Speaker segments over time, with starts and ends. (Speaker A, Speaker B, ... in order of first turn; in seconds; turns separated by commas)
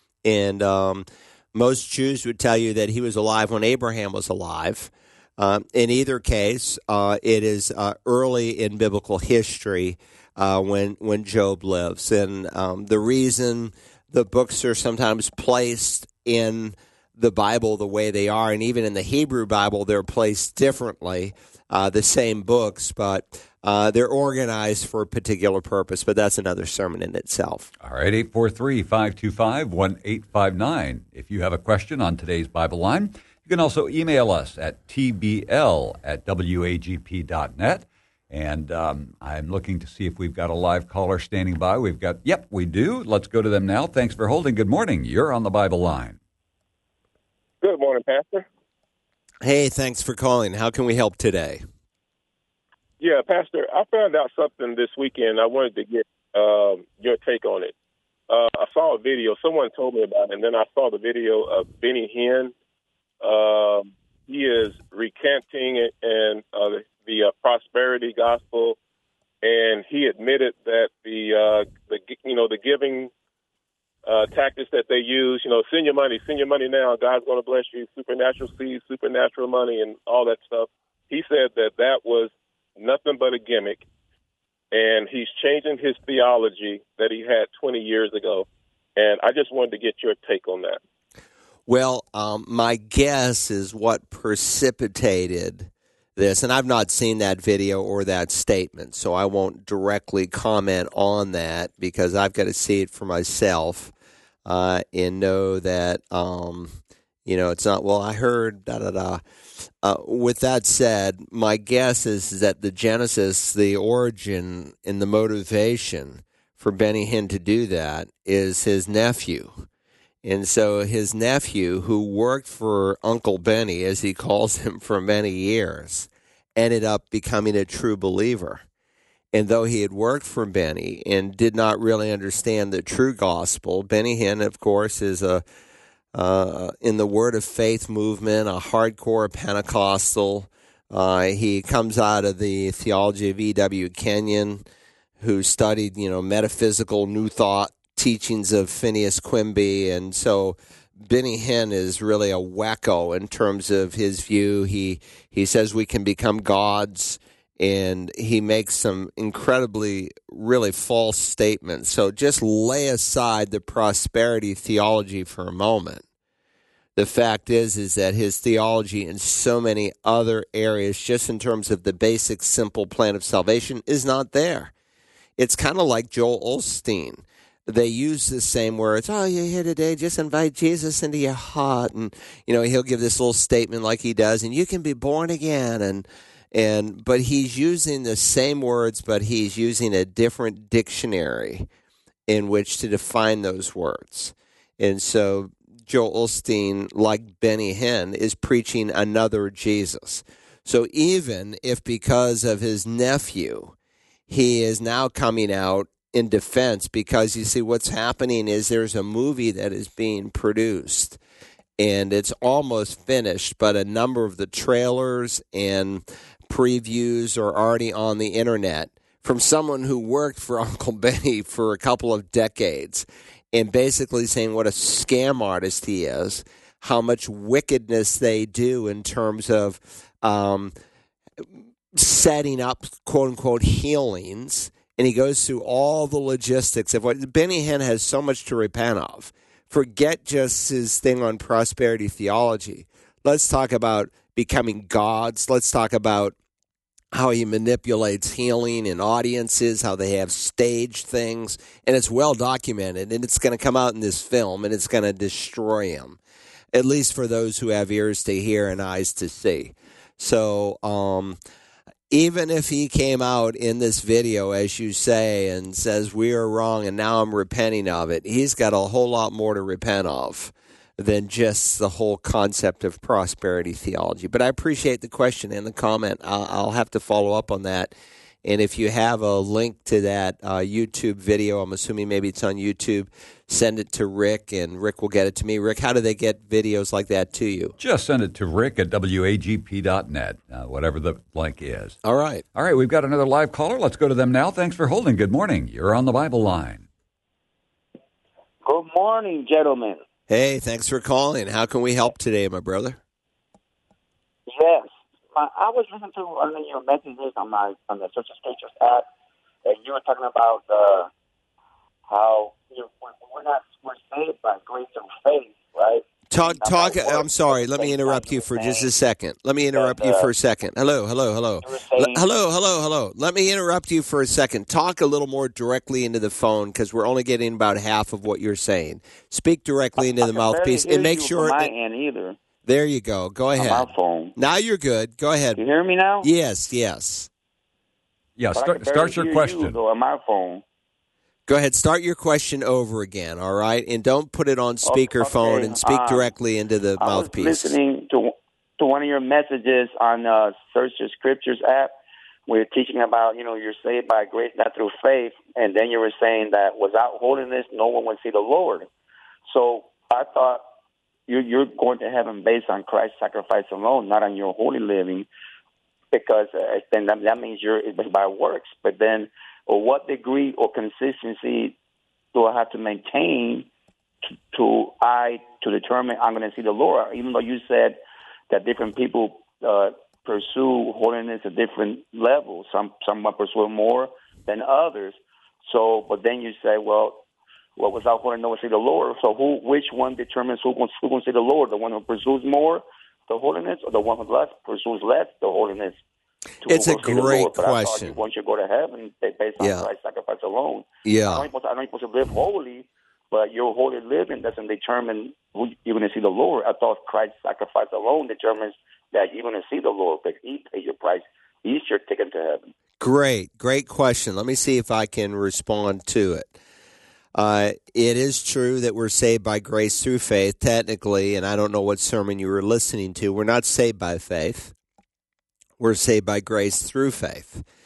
Speaker A: 0.2-27.7, Speaker B: 27.8-46.2, Speaker C: 47.6-48.5, Speaker A: 49.4-51.6, Speaker C: 53.0-57.7, Speaker C: 58.3-62.5, Speaker C: 63.2-68.8, Speaker C: 69.4-73.1, Speaker C: 74.0-83.8, Speaker C: 84.7-90.8, Speaker A: 91.7-103.9, Speaker A: 104.4-109.2, Speaker A: 109.8-119.7, Speaker A: 120.2-128.6, Speaker A: 129.3-135.4, Speaker A: 136.1-144.6, Speaker A: 145.2-166.0, Speaker A: 166.9-174.7, Speaker A: 175.4-191.7, Speaker A: 192.3-203.7, Speaker A: 204.3-211.2, Speaker A: 211.8-230.7, Speaker A: 231.9-246.3, Speaker A: 247.1-256.2, Speaker A: 256.7-261.4, Speaker A: 262.1-277.9, Speaker A: 278.4-287.8, Speaker B: 287.8-292.0, Speaker A: 292.0-292.4, Speaker B: 292.5-296.9, Speaker D: 298.6-300.0, Speaker A: 300.3-303.0, Speaker D: 304.5-309.1, Speaker D: 309.6-311.1, Speaker D: 312.1-318.9, Speaker A: 316.3-331.7, Speaker D: 319.7-320.3, Speaker D: 321.6-322.2, Speaker D: 330.0-332.4, Speaker A: 332.6-335.6, Speaker D: 333.6-334.3, Speaker D: 335.6-336.3, Speaker A: 336.2-337.3, Speaker B: 338.4-339.8, Speaker D: 338.5-340.6, Speaker A: 341.5-347.8, Speaker D: 344.8-346.3, Speaker D: 347.0-351.9, Speaker D: 352.5-358.9, Speaker D: 359.5-360.6, Speaker D: 361.3-365.3, Speaker D: 366.1-371.8, Speaker D: 372.3-373.7, Speaker D: 374.5-378.0, Speaker D: 378.5-387.2, Speaker D: 387.8-396.0, Speaker D: 396.6-412.7, Speaker A: 396.6-398.2, Speaker A: 399.6-399.9, Speaker A: 401.0-401.5, Speaker A: 413.0-416.5, Speaker A: 417.3-424.7, Speaker A: 425.8-427.6